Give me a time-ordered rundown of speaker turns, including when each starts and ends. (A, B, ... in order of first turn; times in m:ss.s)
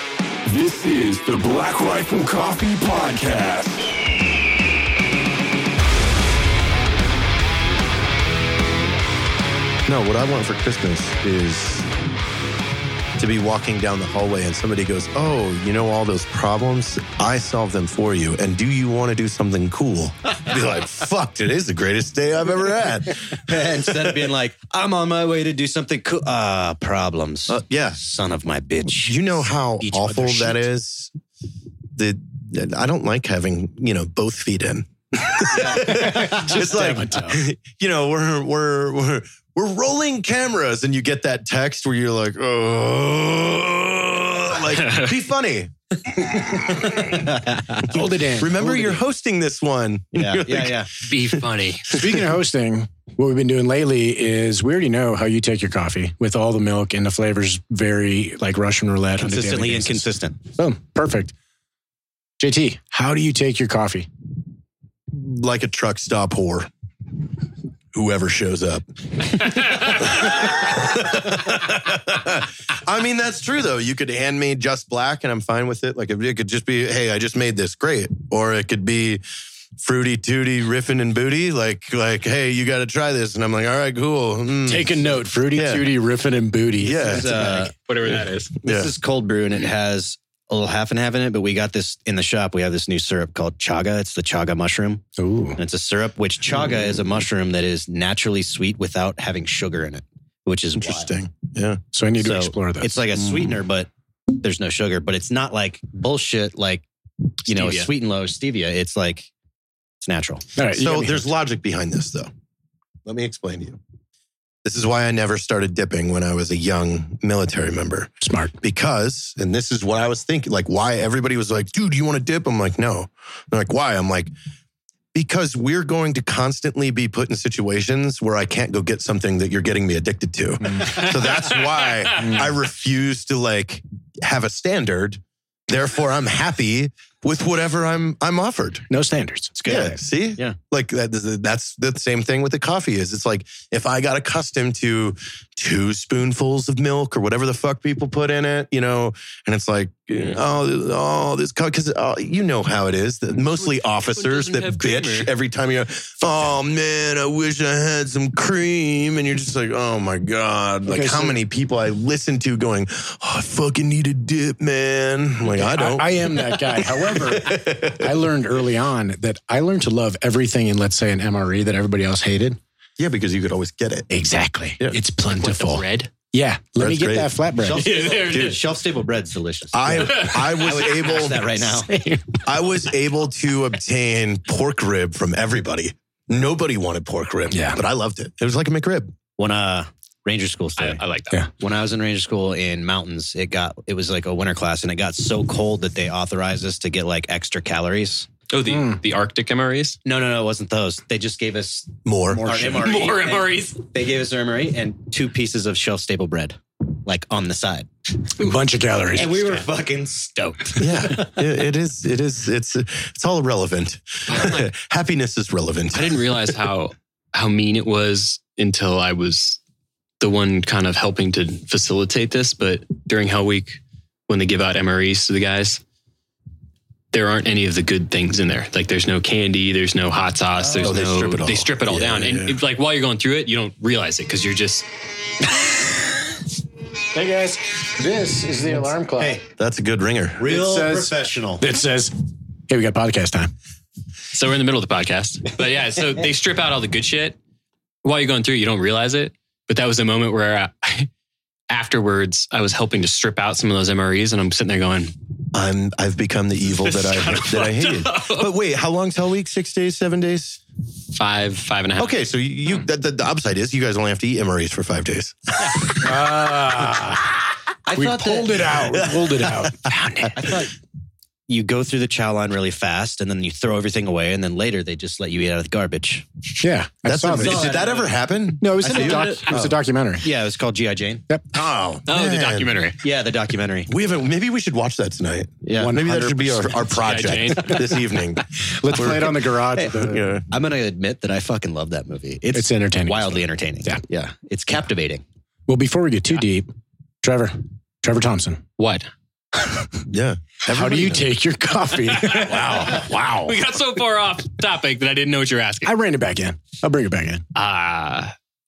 0:00.5-0:03.9 A
0:09.9-0:11.9 B
0:13.2-0:23.9 B
0:23.4-0:30.6 C
0:27.5-0:28.0 B
0:29.0-0:31.1 B
0:32.0-0:52.2 B
0:35.5-0:36.5 C
0:35.9-0:37.4 D
0:44.8-0:45.1 E
0:47.3-0:48.0 C
0:47.8-0:49.0 D
0:50.2-0:50.9 C
0:51.0-0:51.9 E
0:51.9-1:01.3 D
0:59.2-1:00.4 C
1:02.4-1:04.1 D
1:05.1-1:06.7 B
1:07.9-1:19.2 B
1:19.8-1:25.9 B
1:24.7-1:27.7 D
1:26.8-1:27.3 B
1:27.0-1:27.7 C
1:27.8-1:28.6 E
1:28.6-1:28.9 B
1:28.6-1:35.0 C
1:35.2-1:35.6 D
1:35.6-1:41.1 C
1:40.8-1:41.8 B
1:41.9-1:43.4 D
1:42.2-1:46.9 C
1:47.5-1:49.3 C
1:47.5-1:47.9 E
1:50.0-1:50.4 C
1:50.6-1:51.3 D
1:50.7-1:52.3 B
1:53.1-1:53.8 B
1:54.6-2:04.3 B
1:58.2-1:58.5 D
2:05.1-2:18.8 B
2:10.7-2:10.9 D
2:11.0-2:12.4 E
2:12.2-2:12.5 D
2:18.9-2:19.6 D
2:19.6-2:20.6 C
2:19.7-2:48.1 B
2:33.6-2:35.3 E
2:40.9-2:41.4 D
2:45.4-2:52.6 D
2:53.0-2:54.1 B
2:54.1-2:57.8 D
2:55.3-2:56.1 E
2:56.8-2:57.3 B
2:57.6-3:01.9 C
2:57.7-2:58.6 E
2:57.9-2:58.6 B
2:59.7-3:01.7 B
3:00.2-3:00.8 E
3:01.9-3:02.4 D
3:02.4-3:09.1 B
3:07.5-3:07.8 D
3:09.4-3:11.0 C
3:10.8-3:11.4 E
3:11.6-3:18.3 C
3:18.5-3:20.0 E
3:18.7-3:19.0 D
3:20.0-3:27.9 C
3:22.0-3:22.6 B
3:22.6-3:23.8 E
3:28.4-3:29.6 D
3:29.1-3:31.4 C
3:30.8-3:36.6 B
3:34.3-3:34.6 E
3:35.9-3:39.6 E
3:40.2-3:45.8 E
3:47.1-3:54.9 E
3:50.6-3:51.0 C
3:50.8-3:52.6 B
3:57.1-3:59.4 D
3:58.7-3:59.4 C
3:59.6-4:00.5 B
4:00.4-4:01.6 C
4:00.4-4:02.2 D
4:02.7-4:03.5 D
4:04.3-4:07.4 E
4:08.0-4:11.1 E
4:11.7-4:15.1 E
4:15.5-4:20.6 B
4:16.8-4:18.5 E
4:21.2-4:22.2 E
4:22.0-4:26.3 B
4:26.0-4:27.4 D
4:27.9-4:28.6 C
4:27.9-4:30.4 D
4:28.8-4:30.3 B
4:30.3-4:30.7 C
4:31.5-4:36.3 C
4:36.6-4:37.8 D
4:37.1-4:39.7 B
4:37.3-4:38.2 C
4:38.6-4:40.3 D
4:38.8-4:41.2 C
4:41.5-4:42.8 B
4:42.1-4:43.0 E
4:43.0-4:43.9 C
4:43.9-4:50.5 B
4:45.6-4:46.0 C
4:45.8-4:48.0 D
4:46.9-4:48.1 E
4:48.6-4:50.2 D
4:50.5-4:55.2 C
4:52.5-4:54.0 D
4:55.7-4:56.7 D
4:57.2-4:58.6 D
4:58.8-4:59.1 E
4:59.6-4:59.9 D
5:00.1-5:01.3 B
5:00.7-5:03.6 D
5:02.1-5:05.9 E
5:05.8-5:07.4 D
5:07.6-5:08.3 E